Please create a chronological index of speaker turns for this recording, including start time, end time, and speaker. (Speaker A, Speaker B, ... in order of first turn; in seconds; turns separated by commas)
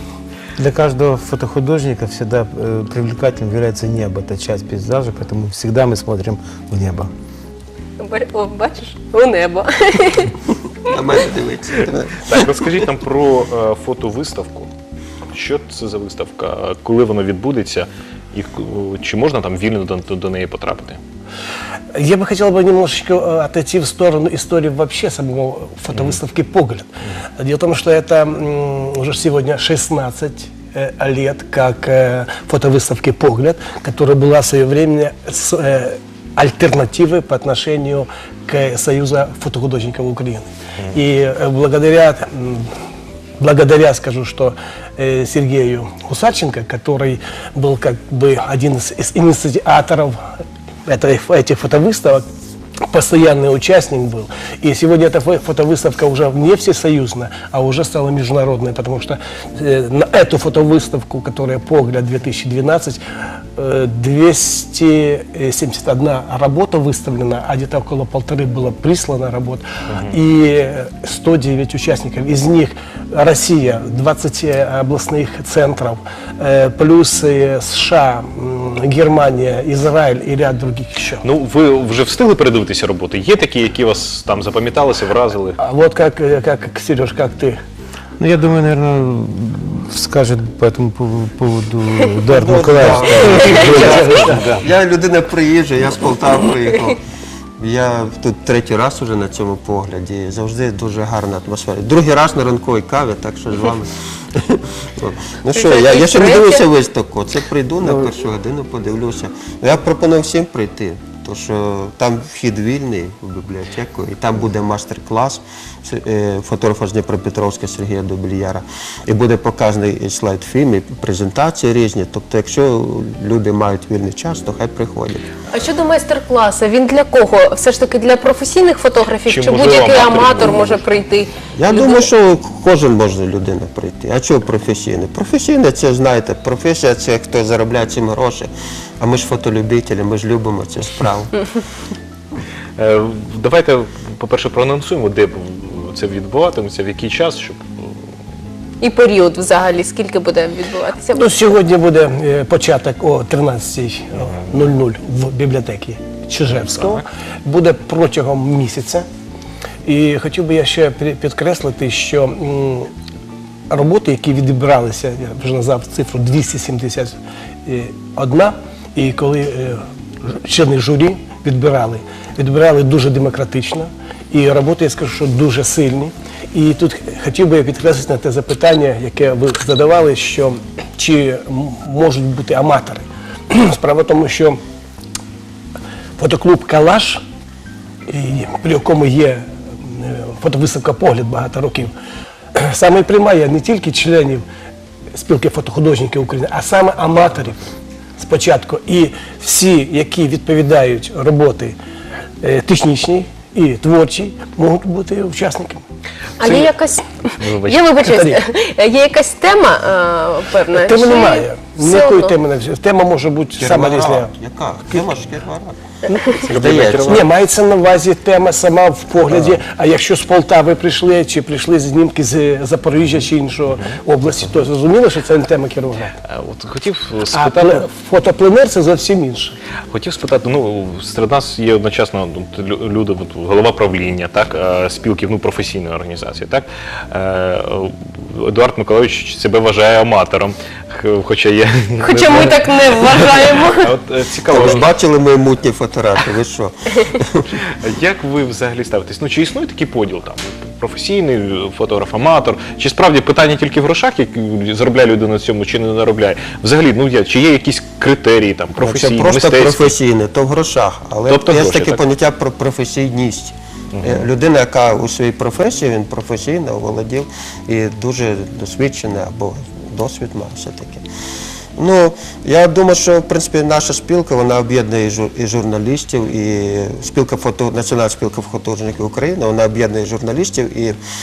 Speaker A: 0.6-7.1, Speaker B: 8.0-10.4, Speaker C: 10.9-12.4, Speaker D: 11.8-14.7, Speaker D: 15.3-21.0, Speaker E: 21.9-26.9, Speaker E: 27.4-42.7, Speaker E: 43.4-50.3, Speaker E: 50.9-52.2, Speaker E: 52.9-63.0, Speaker E: 63.6-81.2, Speaker D: 69.9-70.2, Speaker D: 81.2-85.6, Speaker E: 85.6-87.6, Speaker A: 88.2-94.6, Speaker C: 92.6-97.0, Speaker B: 93.2-94.0, Speaker C: 97.6-125.2, Speaker B: 105.5-106.7, Speaker B: 125.5-132.1, Speaker D: 129.1-130.9, Speaker C: 131.5-138.5, Speaker C: 139.0-141.3, Speaker D: 142.8-148.0, Speaker B: 148.8-151.5, Speaker E: 151.1-159.1, Speaker D: 156.6-157.0, Speaker E: 159.8-162.9, Speaker E: 163.7-184.6, Speaker E: 186.2-187.2, Speaker E: 188.1-191.9, Speaker E: 192.6-194.4, Speaker E: 195.1-197.6, Speaker E: 198.2-201.8, Speaker E: 202.4-205.8, Speaker B: 206.4-212.4, Speaker D: 206.4-206.7, Speaker D: 207.4-207.9, Speaker E: 208.1-208.4, Speaker E: 210.7-214.3, Speaker C: 213.6-215.8, Speaker E: 216.1-216.4, Speaker B: 216.1-216.4, Speaker C: 216.4-217.3, Speaker D: 216.5-217.0, Speaker E: 217.0-226.2, Speaker D: 226.3-227.9, Speaker E: 227.3-229.6, Speaker D: 229.9-244.9, Speaker B: 242.0-243.9, Speaker C: 244.5-247.5, Speaker D: 247.6-259.9, Speaker C: 258.8-271.0, Speaker D: 261.3-262.0, Speaker D: 263.9-264.3, Speaker C: 271.8-281.0